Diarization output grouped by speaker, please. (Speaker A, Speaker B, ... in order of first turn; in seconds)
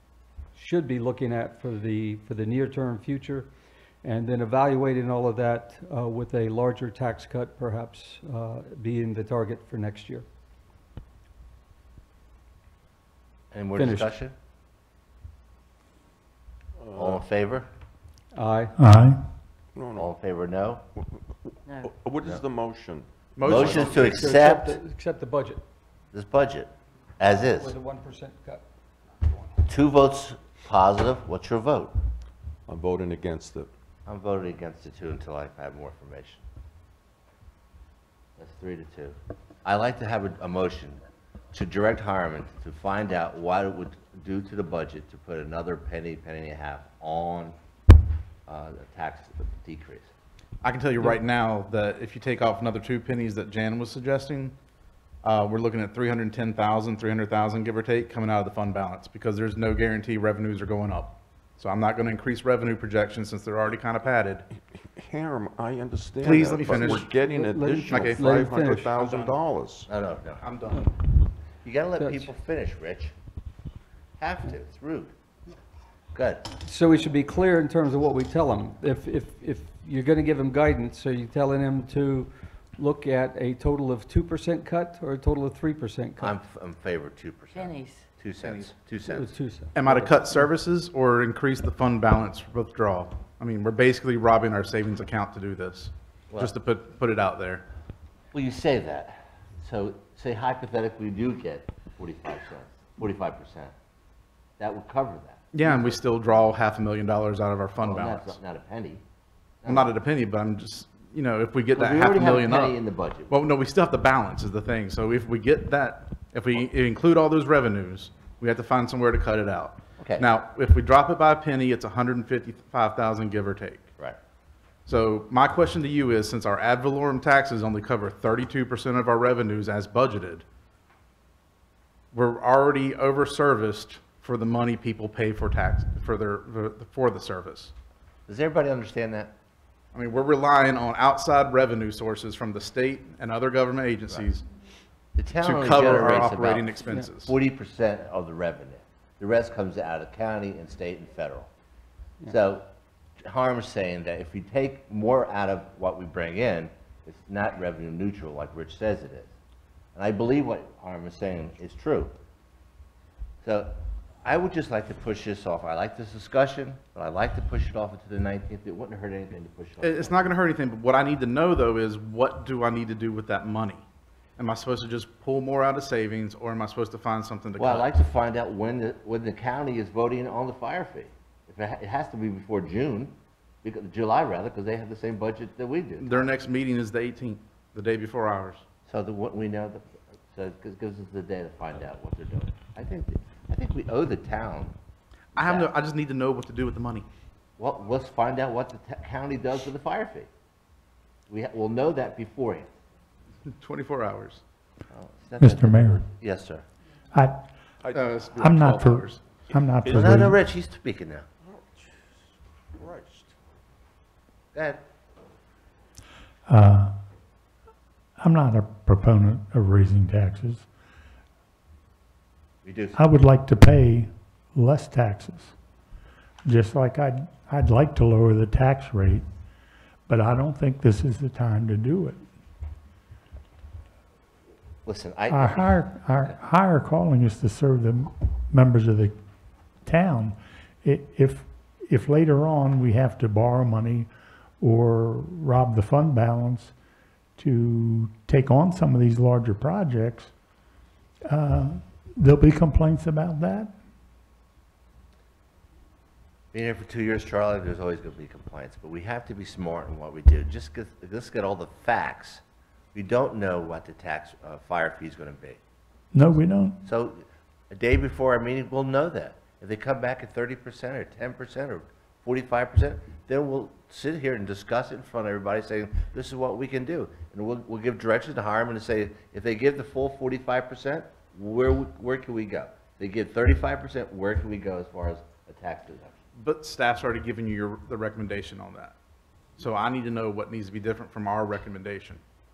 Speaker A: 0.5-3.5, 4.0-10.2, 13.8-14.1, 18.3-18.7, 23.5-25.6, 27.2-28.6, 67.1-68.9, 72.0-72.3, 76.6-86.3, 89.0-90.4
Speaker B: 13.5-14.3, 16.9-17.7, 20.0-20.8, 23.4-24.8, 26.1-27.7, 29.7-31.9, 34.0-36.4, 38.4-41.0, 41.5-47.5, 48.5-50.1, 69.9-70.5, 71.6-73.1, 74.2-75.1, 76.1-76.5, 86.2-89.3, 98.3-103.7, 104.6-106.0, 107.8-109.0, 109.6-110.0, 111.7-113.3, 120.0-120.3, 138.3-139.3, 145.2-151.5, 152.2-152.7, 153.2-159.3, 159.9-162.1, 163.4-170.3, 177.6-186.3, 188.9-194.7, 195.3-195.7, 197.6-200.3, 201.3-202.7, 204.9-206.6, 209.8-211.2, 214.5-214.8, 222.6-223.0, 234.8-235.8, 256.5-262.4, 262.9-265.6, 266.8-286.2
Speaker C: 16.8-17.2, 19.7-20.1, 21.0-23.9, 32.7-33.7, 64.8-69.9, 209.8-210.2, 211.4-212.1, 212.7-213.3
Speaker D: 18.8-19.2, 205.4-206.0, 207.1-207.4, 208.4-210.4, 216.5-216.9, 218.2-220.7, 222.9-225.5, 226.4-229.2, 230.1-232.2, 235.3-239.1, 239.8-244.1, 244.6-246.7, 247.4-250.3, 251.3-253.7, 266.1-266.8
Speaker E: 23.4-24.0, 50.6-54.5, 55.2-64.5, 66.2-67.1, 67.9-69.4, 70.4-70.9, 88.4-88.7, 89.7-97.6, 105.5-108.4, 109.7-123.9, 124.8-130.4, 132.1-137.7, 139.9-144.4, 145.4-147.3, 169.8-173.8, 174.4-177.9, 186.0-188.6, 195.3-197.1, 203.4-204.4, 207.9-209.2, 286.4-288.9, 289.6-292.2